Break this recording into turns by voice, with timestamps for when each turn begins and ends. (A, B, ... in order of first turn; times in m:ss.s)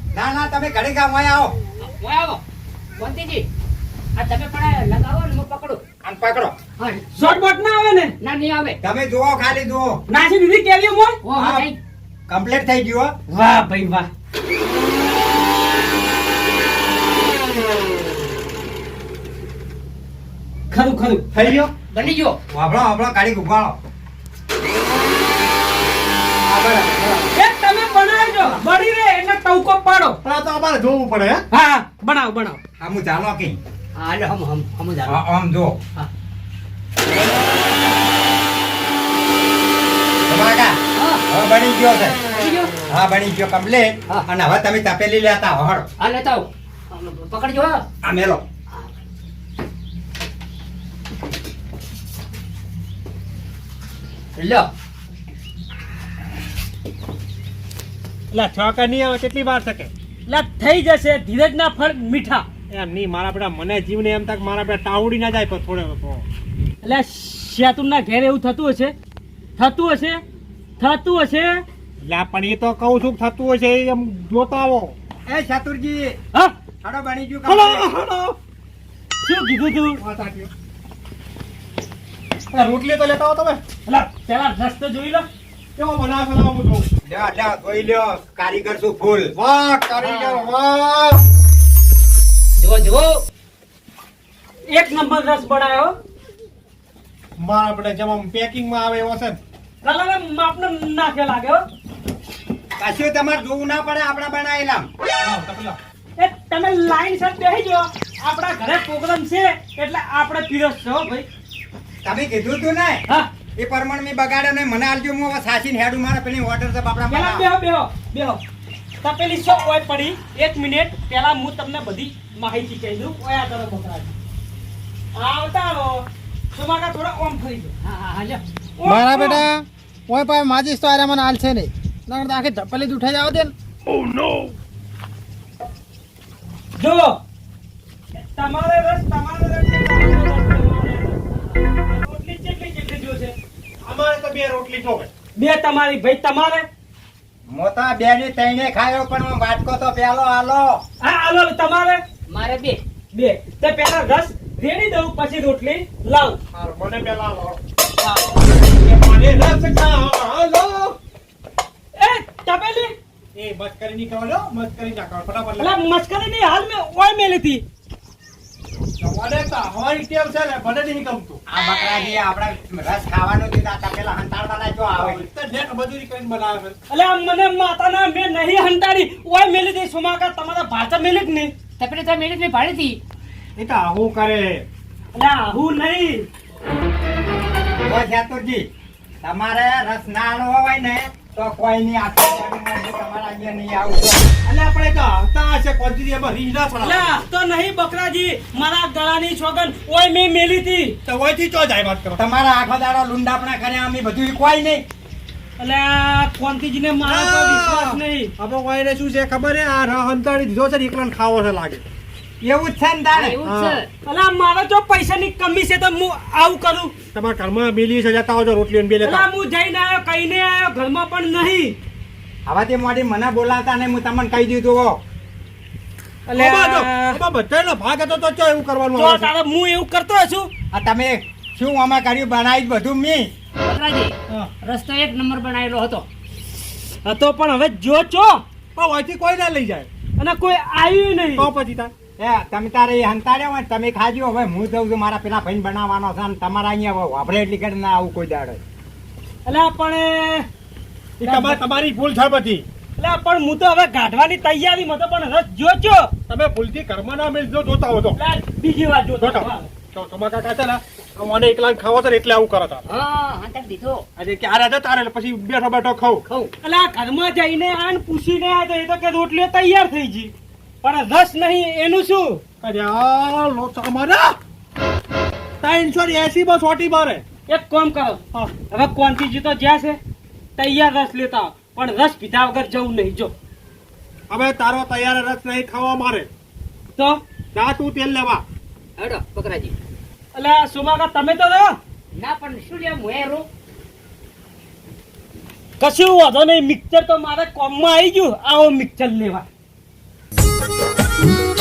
0:00.1-0:01.6 A
0:01.8-0:02.4 B
0:03.0-0:03.5 B
0:04.2-0:05.8 B
0:06.0-0:06.6 A
0:06.8-0:07.4 B
0:07.2-0:08.1 C
0:08.2-0:08.8 B
0:08.8-0:10.0 A
0:10.1-0:11.2 C
0:11.2-0:11.8 B
0:11.4-0:11.7 A
0:12.3-0:13.1 A
0:13.3-0:14.1 C
0:20.7-0:21.2 C
0:21.3-0:21.7 D
0:21.9-0:22.4 B
0:22.5-0:23.8 A
0:27.3-0:30.2 C
0:30.2-0:31.4 D
0:31.5-0:32.6 C
0:32.8-0:33.6 A
0:34.0-0:35.2 B
0:35.0-0:35.8 A
0:40.3-0:42.2 A
0:41.0-0:41.2 B
0:42.4-0:42.8 B
0:42.9-0:45.9 A
0:46.0-0:47.8 B
0:48.0-0:48.4 A
0:54.4-0:54.7 B
0:58.3-0:59.9 D
1:00.3-1:02.5 C
1:02.7-1:06.2 D
1:06.8-1:08.9 C
1:09.6-1:10.2 C
1:10.8-1:11.6 C
1:12.0-1:15.0 D
1:15.3-1:16.2 A
1:16.8-1:17.9 A
1:17.5-1:18.4 D
1:19.2-1:20.0 C
1:20.0-1:20.5 D
1:22.5-1:23.6 D
1:23.9-1:25.3 C
1:25.8-1:26.9 D
1:27.0-1:29.3 A
1:29.4-1:31.2 D
1:30.0-1:30.5 B
1:32.6-1:33.2 B
1:34.7-1:36.0 C
1:37.4-1:39.4 D
1:39.8-1:41.6 C
1:42.8-1:44.9 A
1:45.2-1:45.8 D
1:46.2-1:51.3 C
1:52.0-1:53.0 A
1:53.6-1:57.5 A
1:57.1-1:58.4 C
1:59.0-2:04.1 C
2:05.2-2:07.7 C
2:07.8-2:08.4 B
2:08.8-2:09.5 C
2:08.8-2:13.5 E
2:16.8-2:17.2 C
2:18.1-2:21.2 C
2:21.8-2:23.4 C
2:23.9-2:25.1 D
2:25.4-2:26.7 C
2:27.5-2:30.8 A
2:31.0-2:32.0 C
2:32.3-2:32.8 B
2:33.1-2:36.4 C
2:36.5-2:37.6 D
2:38.7-2:41.0 D
2:42.0-2:42.9 C
2:43.4-2:45.8 D
2:45.6-2:47.6 C
2:49.0-2:51.4 D
2:51.5-2:55.2 A
2:55.0-2:56.8 D
2:56.9-3:01.5 C
3:01.8-3:03.0 B
3:03.6-3:04.7 D
3:05.2-3:06.3 C
3:07.8-3:08.7 A
3:09.2-3:14.3 A
3:14.4-3:17.1 D
3:16.8-3:21.0 C
3:21.1-3:22.2 D
3:22.2-3:24.8 A
3:25.6-3:28.3 C
3:27.1-3:31.8 D
3:32.4-3:33.4 A
3:33.1-3:33.9 B
3:33.4-3:33.8 D
3:34.0-3:36.9 C
3:37.1-3:39.3 D
3:39.0-3:41.8 C
3:42.5-3:45.0 A
3:46.3-3:47.2 C
3:46.4-3:49.3 D
3:49.0-3:50.5 C
3:50.7-3:53.3 A
3:53.6-3:56.1 B
3:57.0-3:58.4 C
3:58.8-3:59.9 D
4:00.2-4:01.5 C
4:01.4-4:01.9 D
4:02.2-4:08.6 A
4:09.5-4:10.5 C
4:11.2-4:11.6 C
4:11.2-4:12.6 D
4:13.0-4:16.1 C
4:16.3-4:18.2 D
4:18.2-4:19.7 C
4:19.2-4:22.8 D
4:22.9-4:24.0 B
4:24.2-4:26.2 D
4:26.3-4:26.5 B
4:26.6-4:32.4 C
4:32.6-4:34.4 D
4:35.6-4:37.2 D
4:37.5-4:40.0 C
4:40.6-4:43.4 C
4:44.3-4:46.3 D
4:47.0-4:47.2 C
4:47.5-4:48.4 D
4:49.0-4:49.8 B
4:50.3-4:51.8 C
4:52.2-4:53.5 B
4:55.8-4:59.4 C